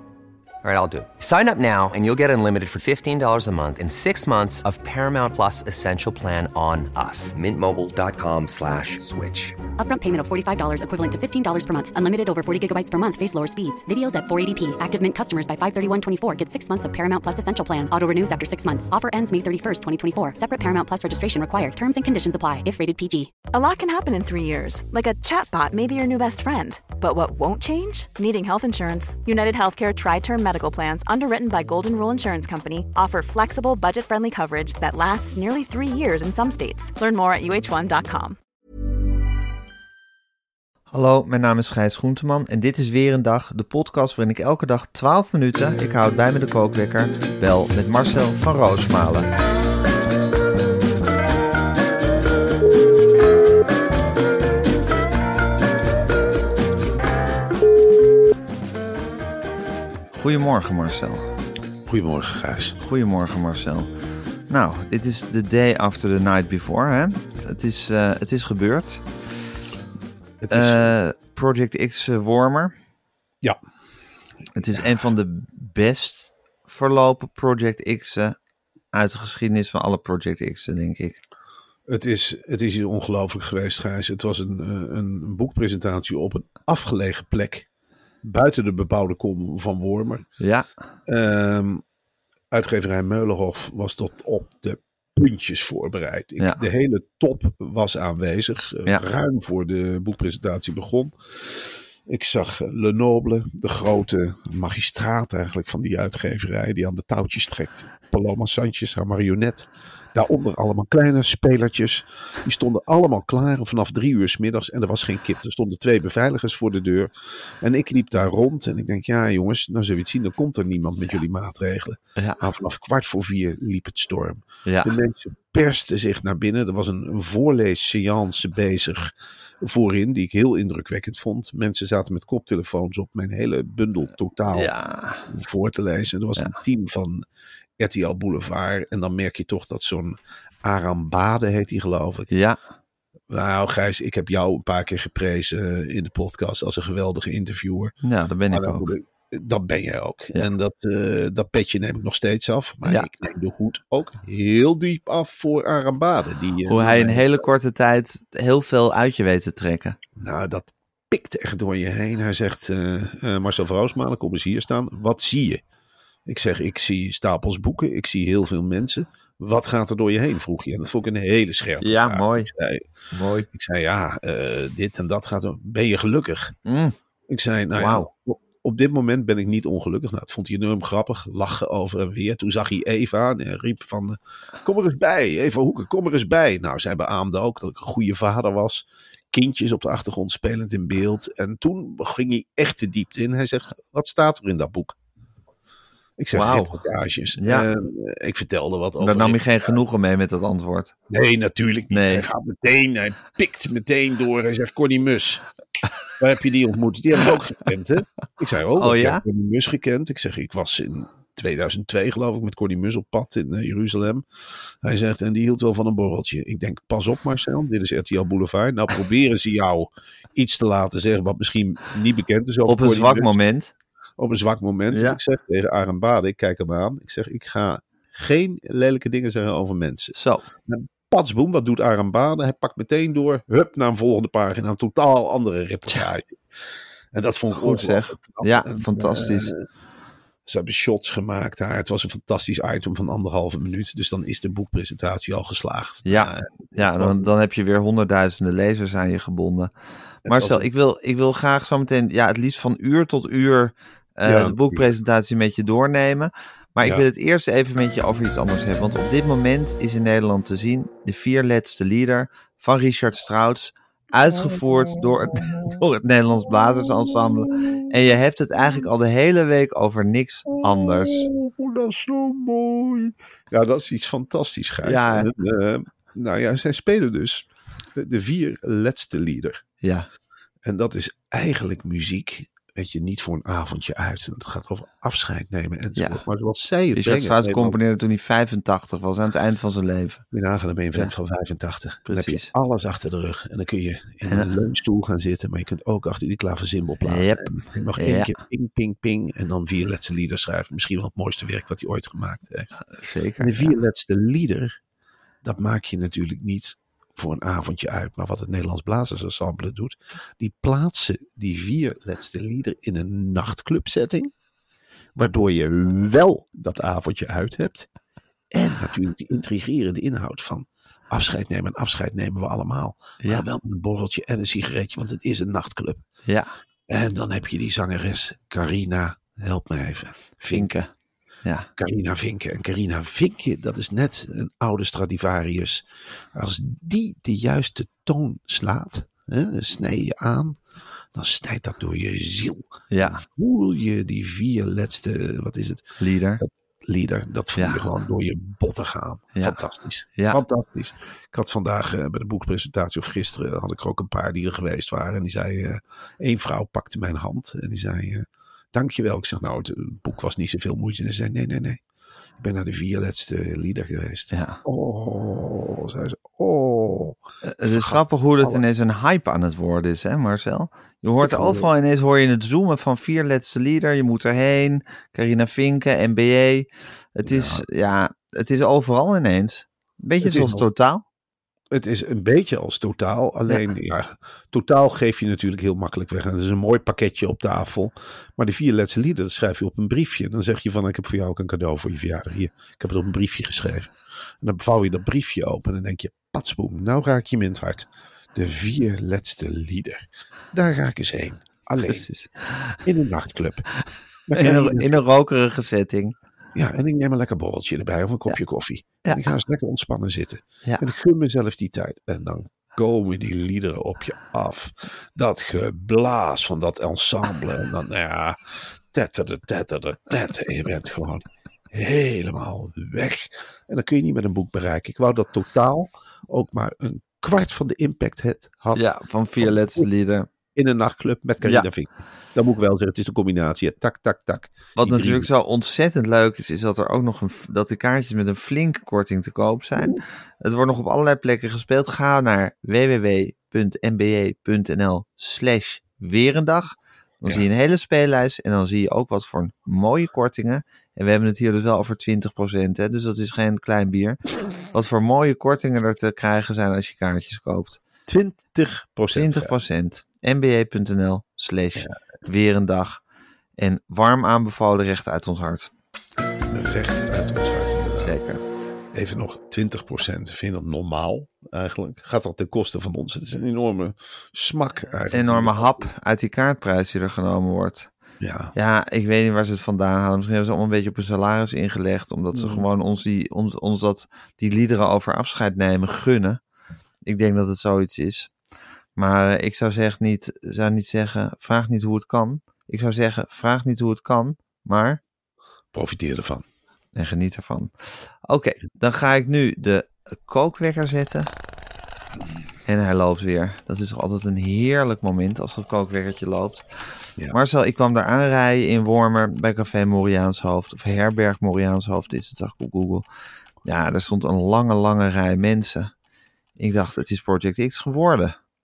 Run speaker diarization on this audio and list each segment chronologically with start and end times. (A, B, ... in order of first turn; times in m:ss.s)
0:00.6-0:09.6 A
0:09.8-0:23.3 B
0:23.5-0:38.4 C
0:40.9-0:49.3 D
1:00.1-1:01.3 D
1:01.8-1:02.8 E
1:02.8-1:03.9 D
1:04.5-1:09.1 D
1:10.4-1:10.9 E
1:10.5-1:12.7 D
1:14.6-1:18.4 D
1:18.9-1:21.2 D
1:21.9-1:27.6 E
1:28.2-1:30.2 E
1:30.4-1:30.7 D
1:31.1-1:31.8 E
1:32.5-2:14.7 E
2:04.6-2:04.9 D
2:14.5-2:15.3 D
2:15.3-2:17.2 E
2:17.8-2:22.3 E
2:22.3-2:22.6 D
2:23.3-2:27.9 E
2:28.0-2:28.9 D
2:28.5-2:37.5 E
2:36.7-2:40.0 D
2:40.2-2:45.6 E
2:46.3-2:52.8 E
2:51.8-2:52.5 D
2:53.1-2:53.5 D
2:53.5-2:56.5 E
2:56.6-2:56.9 D
2:57.3-3:14.9 E
2:57.8-2:58.1 D
3:16.2-3:19.8 E
3:16.3-3:16.8 D
3:17.4-3:17.6 D
3:19.0-3:20.9 D
3:21.1-3:25.4 E
3:21.9-3:22.3 D
3:26.2-3:34.2 E
3:28.8-3:29.2 D
3:34.8-3:43.4 E
3:42.6-3:43.7 D
3:44.2-3:56.4 E
3:44.9-3:45.2 D
3:50.2-3:50.4 D
3:57.1-3:59.6 E
3:57.5-3:59.5 D
4:00.4-4:07.3 E
4:06.0-4:09.7 D
4:10.2-4:10.7 E
4:10.2-4:31.3 D
4:14.2-4:14.9 E
4:24.3-4:25.8 E
4:26.8-4:27.9 E
4:30.6-4:39.6 E
4:34.8-4:35.3 D
4:39.8-4:40.1 D
4:40.6-4:47.8 E
4:46.0-4:46.2 D
4:46.9-4:50.2 D
4:50.3-5:02.8 E
4:52.1-4:52.5 D
4:54.2-4:54.5 D
4:57.0-4:58.3 D
5:02.8-5:03.7 D
5:03.4-5:04.8 E
5:05.4-5:14.3 E
5:15.1-5:17.9 E
5:18.5-5:26.0 E
5:26.9-5:30.7 E
5:30.5-5:30.9 D
5:31.8-5:40.6 E
5:41.1-6:01.8 E
5:42.9-5:43.2 D
5:46.0-5:46.4 D
6:02.4-6:08.6 E
6:04.3-6:04.6 D
6:07.4-6:21.0 D
6:11.2-6:11.7 E
6:17.2-6:17.6 E
6:20.2-6:20.6 E
6:21.7-6:42.1 E
6:41.9-6:42.8 D
6:42.8-6:43.7 E
6:44.3-6:45.0 E
6:44.3-6:46.1 D
6:46.5-6:58.4 E
6:58.9-7:09.9 E
7:08.7-7:10.3 D
7:10.5-7:15.3 E
7:14.8-7:37.8 D
7:38.1-7:39.5 E
7:39.1-7:43.0 D
7:43.6-7:45.7 D
7:46.5-7:48.2 E
7:48.0-7:48.4 D
7:48.9-7:55.9 E
7:55.1-7:57.9 D
7:58.2-7:58.5 E
7:58.5-8:06.4 D
8:02.3-8:02.6 E
8:07.0-8:08.3 D
8:09.0-8:15.0 D
8:15.7-8:16.4 E
8:16.9-8:21.3 D
8:22.6-8:26.6 D
8:27.3-8:33.0 D
8:33.6-8:35.9 D
8:36.6-8:38.3 D